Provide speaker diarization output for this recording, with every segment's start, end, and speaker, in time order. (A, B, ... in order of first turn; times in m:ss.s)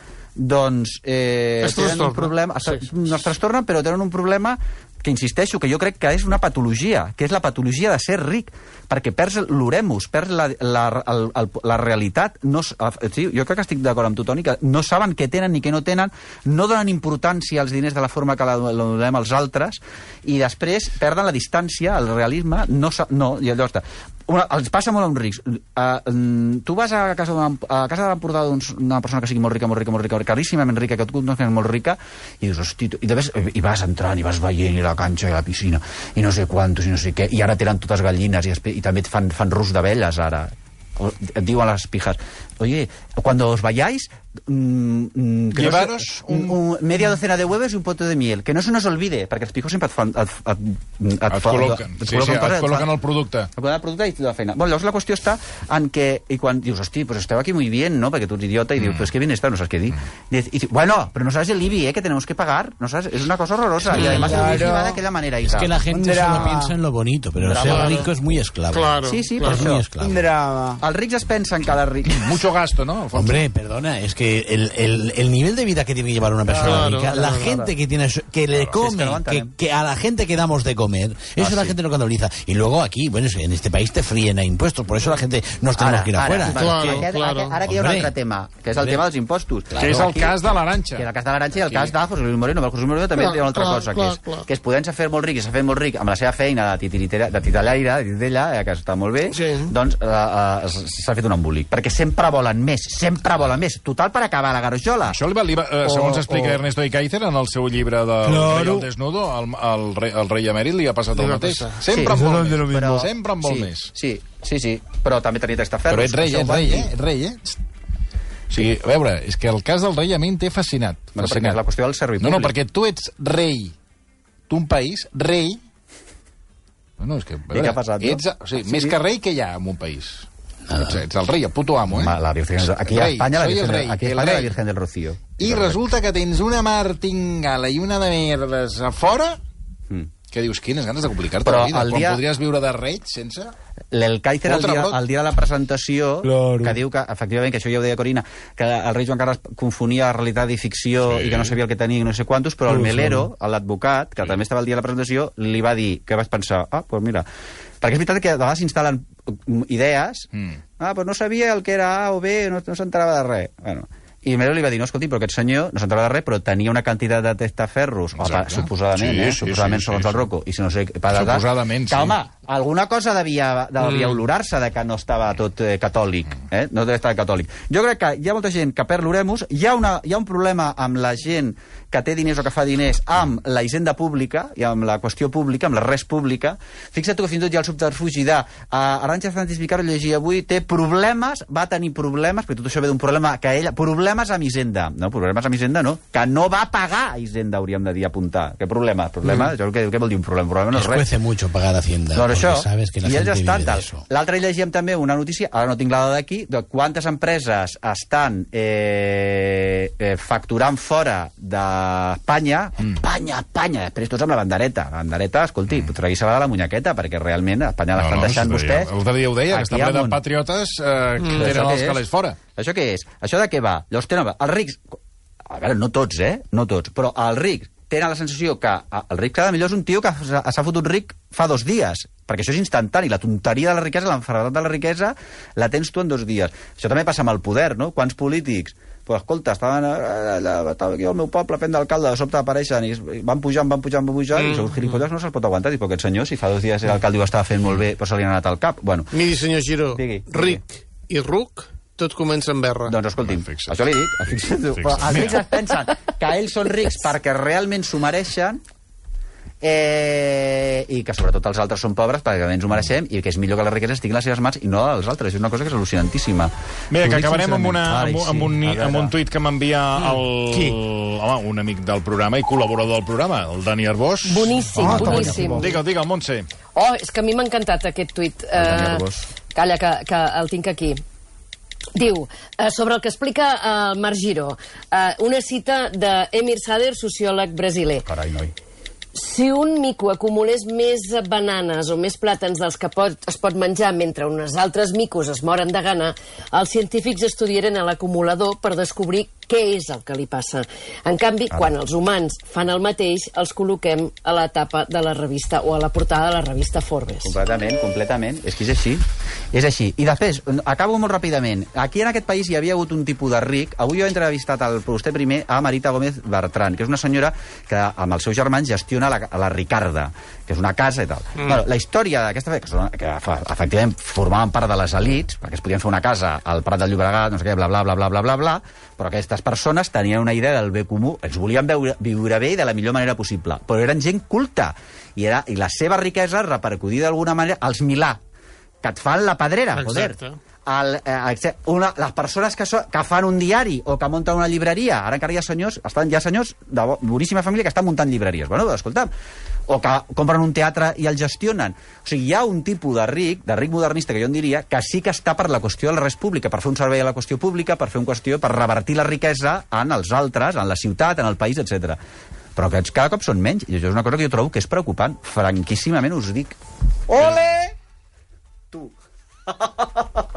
0:00.4-0:52.9 A
0:01.6-0:02.8 B
0:45.5-0:46.6 C
0:51.3-0:53.5 C
0:53.6-1:06.6 A
0:58.8-0:59.1 C
1:03.9-1:04.4 B
1:04.0-1:05.0 D
1:05.4-1:10.3 E
1:05.9-1:06.7 D
1:07.4-1:08.1 A
1:07.6-1:08.1 B
1:08.7-1:09.7 B
1:09.1-1:09.9 A
1:10.0-1:10.8 D
1:10.8-1:12.4 A
1:12.1-1:13.4 C
1:13.1-1:27.1 E
1:16.5-1:17.6 B
1:16.8-1:17.7 A
1:18.5-1:19.5 A
1:21.4-1:21.7 C
1:25.8-1:30.4 A
1:26.4-1:27.6 B
1:27.6-1:28.1 E
1:29.8-1:31.1 C
1:31.0-1:45.2 A
1:31.6-1:31.9 C
1:33.1-1:34.5 B
1:39.3-1:39.7 B
1:45.0-1:53.9 C
1:45.8-1:46.6 D
1:48.2-1:48.9 D
1:51.1-1:51.8 B
1:51.9-1:56.9 A
1:52.1-1:53.0 D
1:55.9-1:57.5 C
1:58.5-2:01.6 C
2:01.2-2:02.5 A
2:02.2-2:03.7 C
2:04.5-2:05.6 C
2:07.0-2:10.3 C
2:07.5-2:09.0 A
2:10.7-2:11.0 E
2:10.8-2:14.5 C
2:11.9-2:15.8 A
2:15.4-2:19.4 C
2:20.3-2:23.5 C
2:21.4-2:22.2 A
2:23.9-2:37.3 A
2:24.4-2:25.0 C
2:26.2-2:26.8 D
2:31.0-2:31.5 C
2:32.7-2:33.3 D
2:37.8-3:21.1 A
2:40.3-2:40.6 C
2:48.2-2:50.3 C
2:51.1-2:52.2 C
2:53.8-2:54.2 B
3:20.7-3:24.0 E
3:22.1-3:38.9 A
3:37.9-3:42.4 C
3:39.5-3:40.2 A
3:41.2-3:41.7 B
3:41.3-3:42.0 A
3:42.5-3:44.9 A
3:45.5-4:09.1 A
4:04.3-4:05.0 B
4:09.1-4:12.9 B
4:09.9-4:10.6 A
4:12.9-4:18.6 A
4:13.2-4:13.8 C
4:14.3-4:15.5 C
4:19.6-4:26.5 A
4:26.9-4:36.4 C
4:27.1-4:29.1 A
4:27.1-4:28.5 D
4:30.5-4:30.8 D
4:34.2-4:35.8 F
4:34.6-4:35.8 D
4:36.7-4:41.0 F
4:38.6-4:39.3 A
4:41.9-4:48.0 F
4:48.0-4:48.5 A
4:49.1-5:07.4 F
5:07.2-5:38.2 A
5:21.4-5:21.6 B
5:38.8-5:49.1 A
5:39.7-5:40.4 B
5:49.7-6:02.0 A
6:02.6-6:06.6 A
6:07.1-6:07.7 A
6:09.5-6:10.2 A